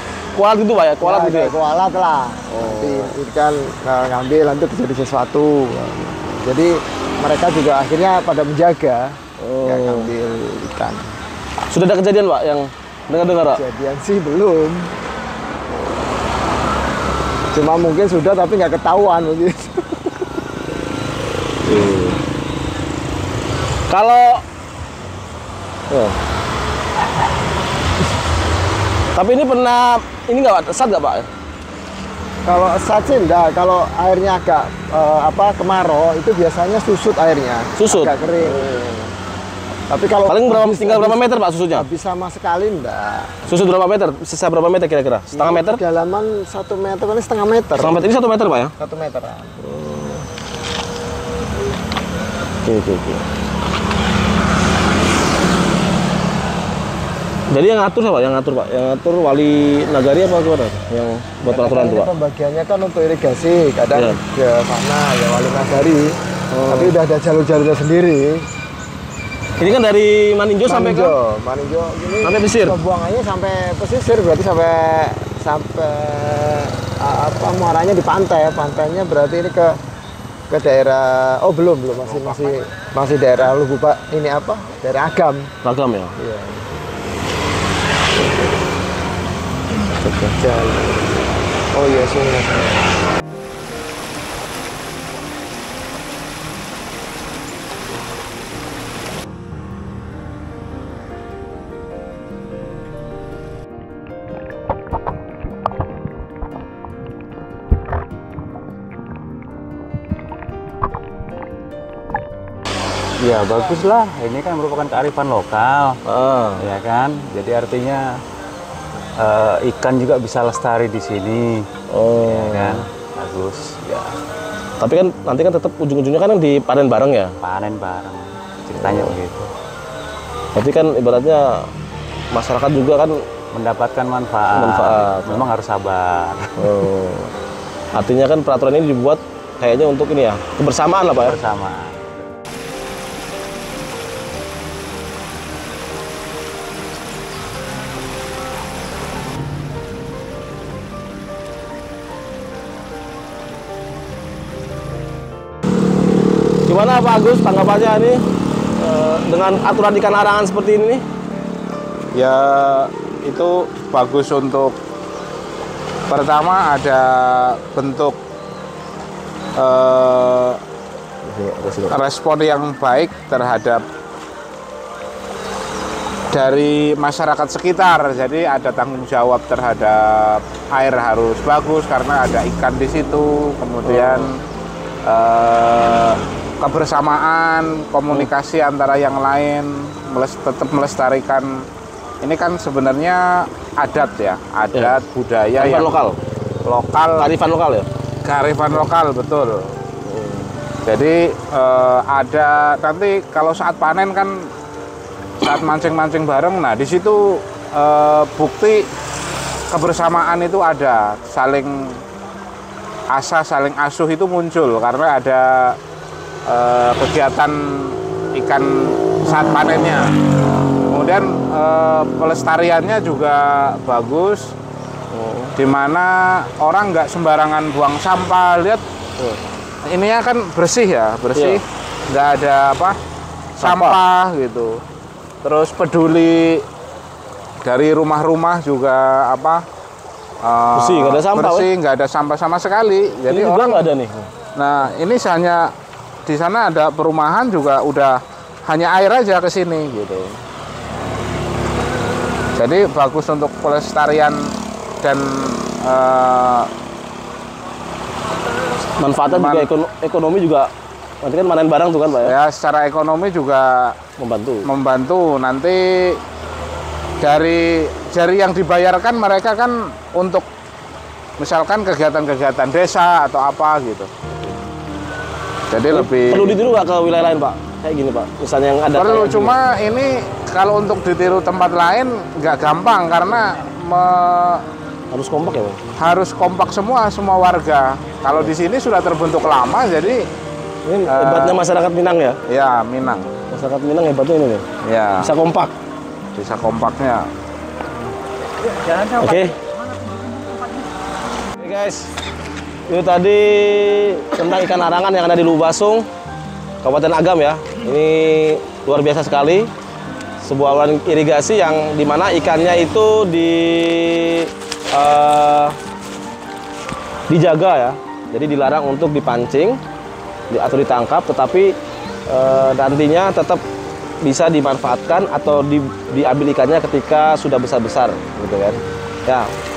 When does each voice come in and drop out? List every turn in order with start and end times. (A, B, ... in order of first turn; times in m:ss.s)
0:00.3-0:01.5 A
0:01.0-0:11.0 B
0:02.5-0:03.2 A
0:09.4-0:10.1 A
0:11.7-0:13.6 A
0:13.5-0:15.0 B
0:17.5-0:20.2 B
0:21.6-0:22.2 A
0:23.9-0:24.4 A
0:25.9-0:26.2 A
0:29.1-0:31.3 A
0:32.4-0:38.9 B
0:37.8-0:39.1 A
0:39.9-0:43.3 B
0:40.3-0:41.8 A
0:43.5-0:45.8 A
0:45.3-0:48.0 B
0:47.8-0:48.7 A
0:48.8-0:49.7 B
0:49.6-0:50.2 A
0:52.6-0:53.2 A
0:57.5-1:02.1 A
1:01.5-1:08.5 B
1:03.9-1:04.2 A
1:06.5-1:06.9 A
1:09.6-1:11.2 A
1:10.6-1:19.8 B
1:12.2-1:12.8 A
1:20.5-1:25.5 B
1:22.0-1:22.5 C
1:25.6-1:26.1 A
1:26.2-1:26.7 B
1:28.1-1:28.6 B
1:29.8-1:33.0 B
1:53.2-1:56.0 D
1:56.0-1:56.6 A
1:56.6-1:58.0 D
1:59.2-2:01.6 D
2:01.9-2:02.8 A
2:02.2-2:04.1 D
2:04.8-2:07.3 A
2:07.4-2:09.4 D
2:08.8-2:09.1 A
2:10.5-2:11.6 A
2:12.3-2:13.2 A
2:13.5-2:16.4 D
2:14.5-2:15.4 A
2:16.6-2:17.3 A
2:17.9-2:21.4 A
2:21.1-2:21.8 D
2:36.6-2:38.2 A
2:38.8-2:41.0 A
2:42.2-2:44.7 C
2:46.1-2:48.2 C
2:49.6-2:50.6 C
2:51.2-2:52.0 A
2:51.9-2:53.8 C
2:56.3-3:04.3 C
3:03.8-3:04.3 A
3:05.1-3:11.5 C
3:12.2-3:16.0 C
3:14.7-3:15.0 A
3:15.6-3:16.2 A
3:16.6-3:17.3 C
3:17.2-3:17.9 A
3:18.2-3:19.7 C
3:18.6-3:18.8 A
3:20.0-3:20.6 A
3:20.8-3:24.3 C
3:25.4-3:27.2 C
3:27.7-3:28.8 C
3:29.7-3:31.7 C
3:33.1-3:35.4 C
3:36.5-3:37.5 C
3:38.4-3:38.7 C
3:39.2-3:40.0 C
3:40.9-3:44.4 C
3:45.1-3:45.5 A
3:45.6-3:48.8 C
3:49.9-3:51.6 C
3:51.3-3:51.6 A
3:52.1-3:53.0 C
3:53.6-3:54.0 A
3:53.6-3:54.7 C
3:55.4-3:56.6 C
3:57.6-3:59.6 C
4:00.4-4:03.9 C
4:00.8-4:01.7 A
4:03.3-4:04.3 A
4:04.6-4:05.6 C
4:06.2-4:10.4 C
4:12.6-4:14.4 C
4:15.0-4:16.7 C
4:19.0-4:20.7 A
4:19.2-4:19.7 C
4:21.2-4:22.3 A
4:22.2-4:23.9 C
4:24.2-4:24.6 A
4:24.6-4:25.8 C
4:27.2-4:30.4 C
4:31.4-4:34.5 C
4:35.7-4:36.6 C
4:35.9-4:39.5 A
4:38.9-4:44.6 C
4:45.1-4:45.8 A
4:46.0-4:50.2 C
4:50.8-4:52.4 A
4:51.1-4:51.6 C
4:52.5-4:53.3 C
4:53.5-4:54.7 A
4:54.8-4:55.3 C
4:55.2-4:55.7 A
4:56.3-4:57.2 C
4:59.1-4:59.6 A
5:01.5-5:02.1 A
5:02.9-5:06.1 A
5:06.8-5:09.7 A
5:10.4-5:15.8 A
5:17.3-5:19.8 A
5:20.5-5:21.8 A
5:22.3-5:23.6 A
5:24.2-5:29.5 A